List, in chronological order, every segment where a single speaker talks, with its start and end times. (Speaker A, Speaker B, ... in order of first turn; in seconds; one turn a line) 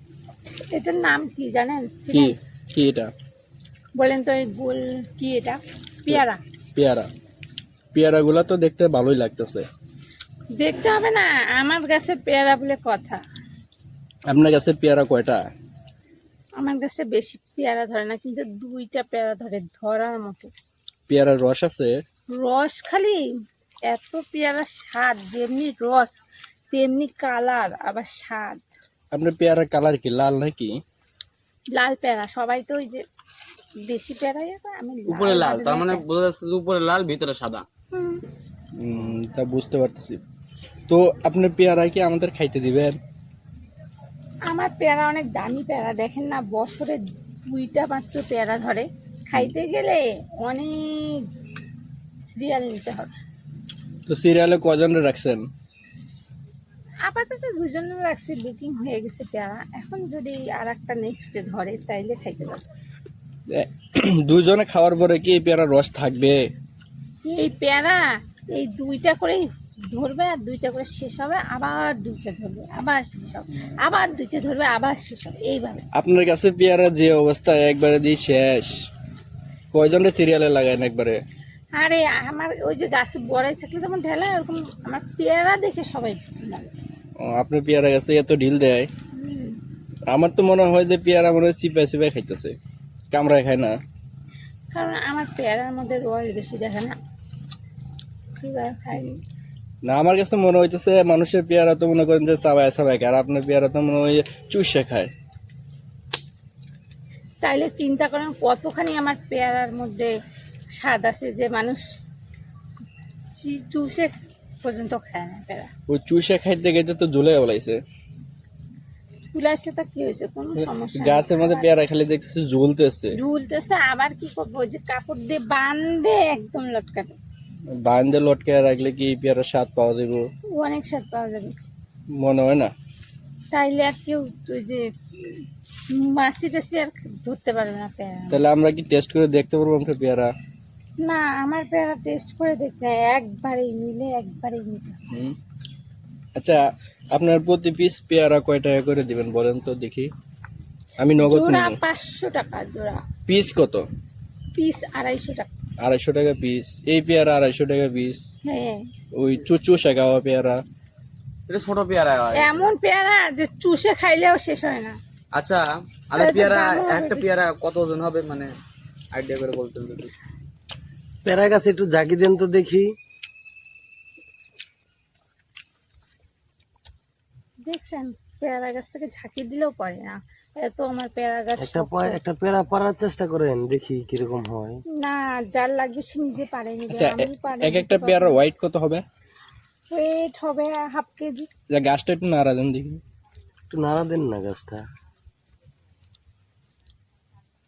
Speaker A: 0.7-2.4
Speaker B: 2.1-3.1
Speaker A: 4.0-6.4
Speaker B: 6.8-7.1
Speaker B: 7.9-9.6
Speaker A: 10.6-13.2
Speaker B: 14.3-15.4
Speaker A: 16.6-20.5
Speaker B: 21.1-22.0
Speaker A: 22.4-23.2
Speaker A: 23.9-26.1
Speaker A: 26.7-28.7
Speaker B: 29.1-30.8
Speaker A: 31.7-33.0
Speaker A: 33.9-36.0
Speaker C: 35.1-37.7
Speaker A: 37.9-38.2
Speaker B: 38.8-40.2
Speaker B: 40.9-43.0
Speaker A: 44.5-51.2
Speaker A: 52.3-53.2
Speaker B: 54.1-55.5
Speaker A: 57.1-62.6
Speaker B: 63.5-66.4
Speaker A: 67.2-68.0
Speaker A: 68.5-75.8
Speaker B: 76.0-78.8
Speaker B: 79.7-81.2
Speaker A: 81.8-86.7
Speaker B: 87.2-88.9
Speaker A: 89.2-89.6
Speaker B: 90.1-92.5
Speaker B: 93.1-93.8
Speaker A: 94.7-97.0
Speaker A: 98.4-99.2
Speaker B: 99.9-105.1
Speaker A: 107.4-110.1
Speaker A: 110.8-111.8
Speaker A: 113.4-115.7
Speaker B: 115.9-117.8
Speaker A: 119.3-121.7
Speaker B: 120.6-123.2
Speaker A: 123.2-127.2
Speaker B: 127.8-130.2
Speaker A: 130.5-131.6
Speaker B: 132.2-132.7
Speaker A: 133.5-138.4
Speaker B: 138.3-140.3
Speaker A: 141.1-145.0
Speaker B: 145.1-145.4
Speaker B: 146.4-146.6
Speaker B: 147.1-150.1
Speaker B: 151.0-151.8
Speaker A: 151.2-153.0
Speaker B: 153.3-153.9
Speaker A: 154.6-155.5
Speaker B: 155.8-158.2
Speaker A: 158.4-158.8
Speaker B: 159.2-160.6
Speaker C: 161.5-162.7
Speaker A: 162.3-165.0
Speaker C: 165.3-168.5
Speaker A: 166.2-167.3
Speaker C: 169.1-170.1
Speaker D: 171.2-172.9
Speaker A: 177.7-182.2
Speaker D: 181.6-184.8
Speaker A: 185.0-188.4
Speaker B: 186.9-189.0
Speaker A: 189.9-191.5
Speaker B: 191.7-193.0
Speaker D: 193.7-194.8